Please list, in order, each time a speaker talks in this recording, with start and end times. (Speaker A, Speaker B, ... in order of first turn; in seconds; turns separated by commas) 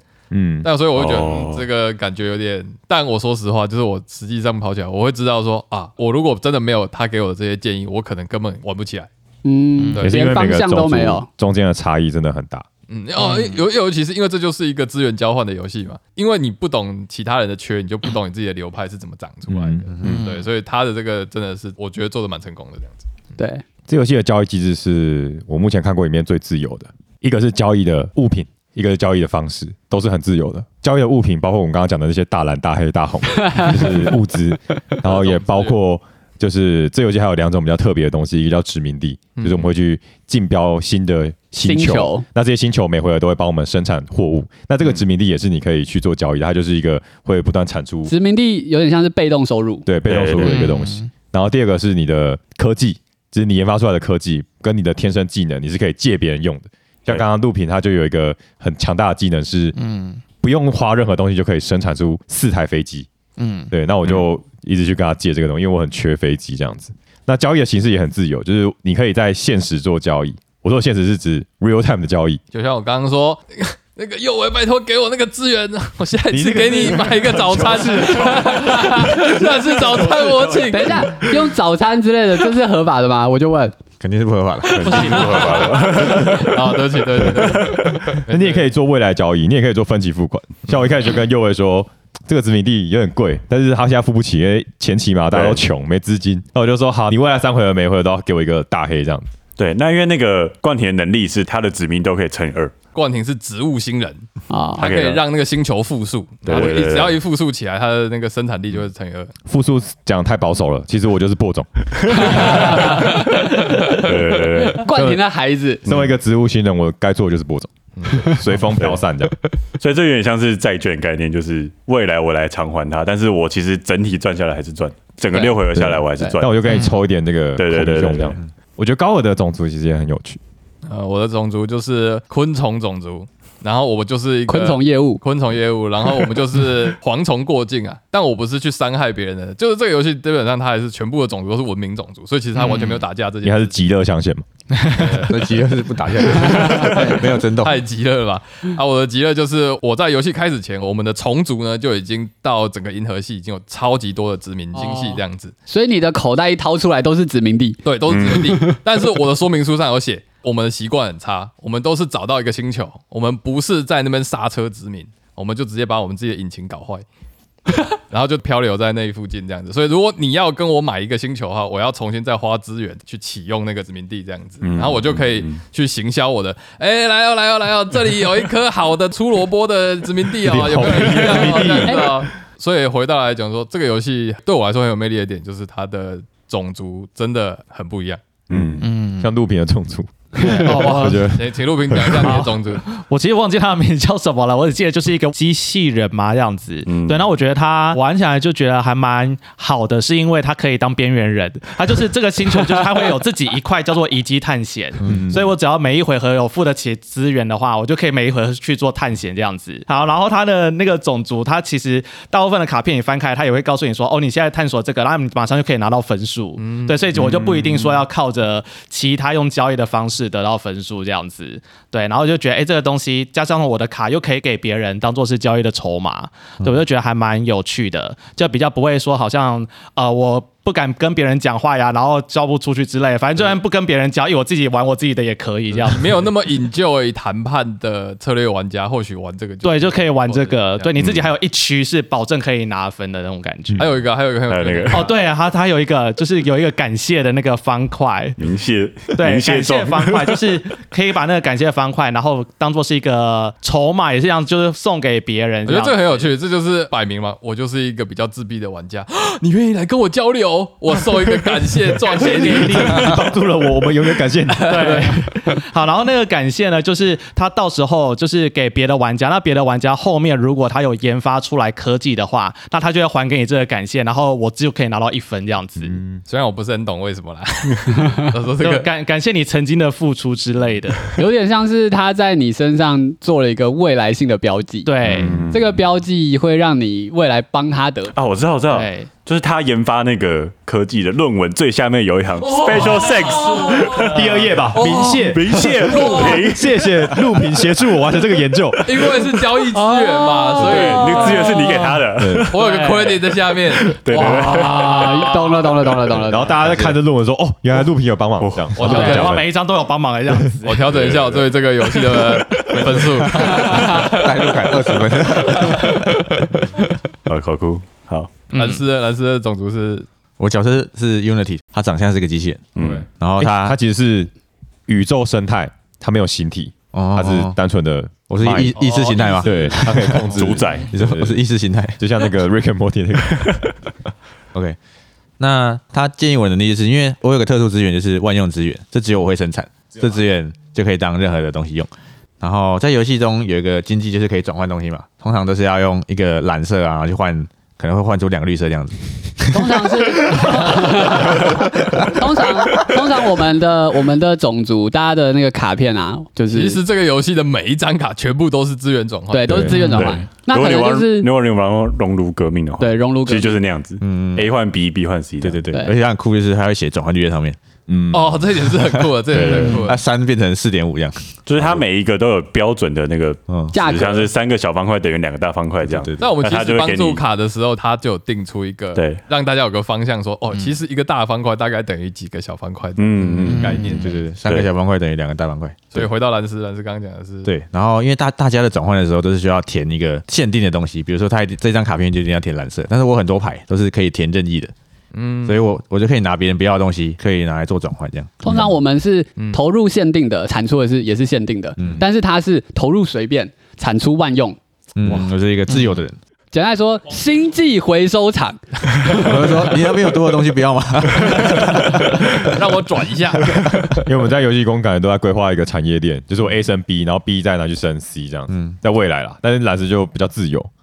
Speaker A: 0.3-0.7, Speaker B: 0.6-9.1, Speaker C: 0.9-1.7, Speaker D: 9.4-11.3, Speaker B: 9.9-10.2, Speaker A: 10.0-12.7, Speaker B: 12.9-23.0, Speaker E: 13.2-13.6, Speaker A: 19.5-20.2, Speaker E: 20.0-20.4, Speaker D: 23.4-23.6, Speaker A: 23.9-48.1, Speaker B: 35.0-35.8, Speaker B: 39.4-39.7, Speaker D: 41.6-42.2, Speaker D: 48.0-49.9, Speaker A: 49.9-59.8, Speaker C: 50.1-50.7, Speaker E: 50.4-51.1, Speaker E: 59.8-60.2, Speaker A: 60.4-63.1, Speaker E: 63.4-63.7, Speaker A: 63.7-72.4, Speaker B: 72.5-81.3, Speaker A: 76.3-80.9, Speaker D: 78.5-78.9, Speaker D: 80.5-83.7, Speaker F: 84.0-85.6, Speaker B: 84.7-88.7, Speaker C: 84.8-86.8, Speaker E: 84.8-86.2, Speaker A: 86.0-86.4, Speaker C: 87.3-88.0, Speaker A: 88.0-99.3, Speaker C: 95.3-95.7, Speaker C: 99.6-102.7, Speaker B: 102.9-104.2, Speaker D: 104.5-104.8, Speaker B: 104.8-109.3, Speaker C: 104.8-105.2, Speaker C: 106.4-107.2, Speaker A: 109.5-112.6, Speaker D: 112.1-114.0, Speaker C: 113.9-114.9, Speaker D: 114.7-115.8, Speaker A: 114.9-115.2, Speaker A: 115.8-119.3, Speaker C: 115.9-116.1, Speaker B: 118.0-118.5, Speaker C: 119.8-126.9, Speaker D: 125.3-125.6, Speaker A: 125.7-130.4, Speaker C: 127.5-128.4, Speaker B: 130.8-143.8, Speaker D: 134.5-135.2, Speaker E: 142.6-143.0, Speaker A: 143.4-144.4, Speaker B: 144.9-145.5, Speaker F: 145.0-147.8, Speaker B: 146.4-155.5, Speaker D: 146.8-147.2, Speaker D: 154.7-158.8, Speaker B: 157.8-167.0, Speaker C: 158.1-158.6, Speaker B: 167.8-188.2, Speaker C: 174.6-175.6, Speaker A: 180.4-182.1, Speaker D: 181.2-182.2, Speaker C: 188.5-188.9, Speaker A: 188.5-192.4, Speaker E: 188.8-189.3, Speaker E: 190.4-191.3, Speaker B: 190.6-192.8, Speaker E: 192.1-236.3, Speaker C: 196.8-197.3, Speaker F: 205.0-205.3, Speaker A: 205.1-205.5, Speaker B: 216.6-217.1, Speaker B: 235.7-240.9, Speaker E: 239.6-243.8, Speaker C: 241.0-241.3, Speaker B: 243.8-245.1, Speaker C: 244.5-245.1, Speaker E: 244.9-248.4, Speaker C: 248.4-250.4, Speaker E: 249.1-256.3, Speaker B: 255.7-263.2, Speaker E: 262.1-263.3, Speaker A: 262.2-265.2, Speaker E: 264.6-276.0, Speaker B: 264.7-265.1, Speaker A: 275.8-276.2, Speaker B: 276.2-278.9, Speaker E: 278.6-281.2, Speaker D: 281.1-288.1, Speaker E: 284.8-285.4, Speaker C: 285.0-285.7, Speaker C: 288.1-294.1, Speaker E: 288.7-289.1, Speaker B: 292.6-294.1, Speaker A: 293.9-299.2, Speaker B: 294.7-296.4, Speaker C: 295.2-296.8, Speaker B: 298.9-301.6, Speaker D: 299.7-301.8, Speaker E: 300.4-301.5, Speaker C: 300.5-302.8, Speaker A: 302.2-302.5, Speaker B: 302.5-305.2, Speaker E: 302.6-303.2, Speaker C: 303.8-305.3, Speaker D: 304.1-306.6, Speaker A: 306.2-309.4, Speaker C: 308.4-308.8, Speaker B: 308.8-309.4, Speaker E: 308.8-311.1, Speaker B: 310.6-314.2, Speaker C: 310.9-311.4, Speaker F: 313.3-316.0, Speaker D: 313.6-314.1, Speaker C: 317.2-318.4, Speaker B: 318.5-320.1, Speaker F: 320.4-323.8, Speaker C: 322.7-323.1, Speaker B: 322.8-323.0, Speaker A: 323.4-324.3, Speaker A: 324.9-328.8, Speaker F: 326.9-327.6, Speaker F: 328.3-330.2, Speaker B: 328.7-330.4, Speaker A: 329.4-331.4, Speaker C: 330.3-330.9, Speaker F: 330.9-332.0, Speaker A: 332.0-333.7, Speaker F: 335.4-341.9, Speaker F: 342.4-350.8, Speaker D: 349.5-356.8, Speaker B: 356.5-360.1, Speaker D: 359.3-361.3, Speaker A: 359.5-359.8, Speaker C: 359.7-365.6, Speaker D: 362.8-363.6, Speaker F: 364.0-364.5, Speaker F: 365.4-367.6, Speaker A: 367.9-368.4, Speaker B: 368.1-370.0, Speaker F: 368.9-371.8, Speaker C: 369.3-369.8, Speaker C: 371.4-377.2, Speaker F: 373.5-373.8, Speaker D: 373.7-374.3, Speaker F: 375.8-376.3, Speaker B: 376.2-384.2, Speaker C: 378.9-379.2, Speaker C: 383.0-384.7, Speaker F: 383.2-386.1, Speaker B: 385.9-387.5, Speaker F: 387.4-394.7, Speaker B: 395.1-395.7, Speaker F: 395.4-398.8, Speaker D: 398.4-404.6, Speaker F: 401.8-402.0, Speaker F: 404.9-406.1, Speaker D: 406.5-409.7, Speaker F: 409.1-412.5, Speaker B: 412.3-413.6, Speaker A: 413.6-420.7, Speaker F: 418.5-418.8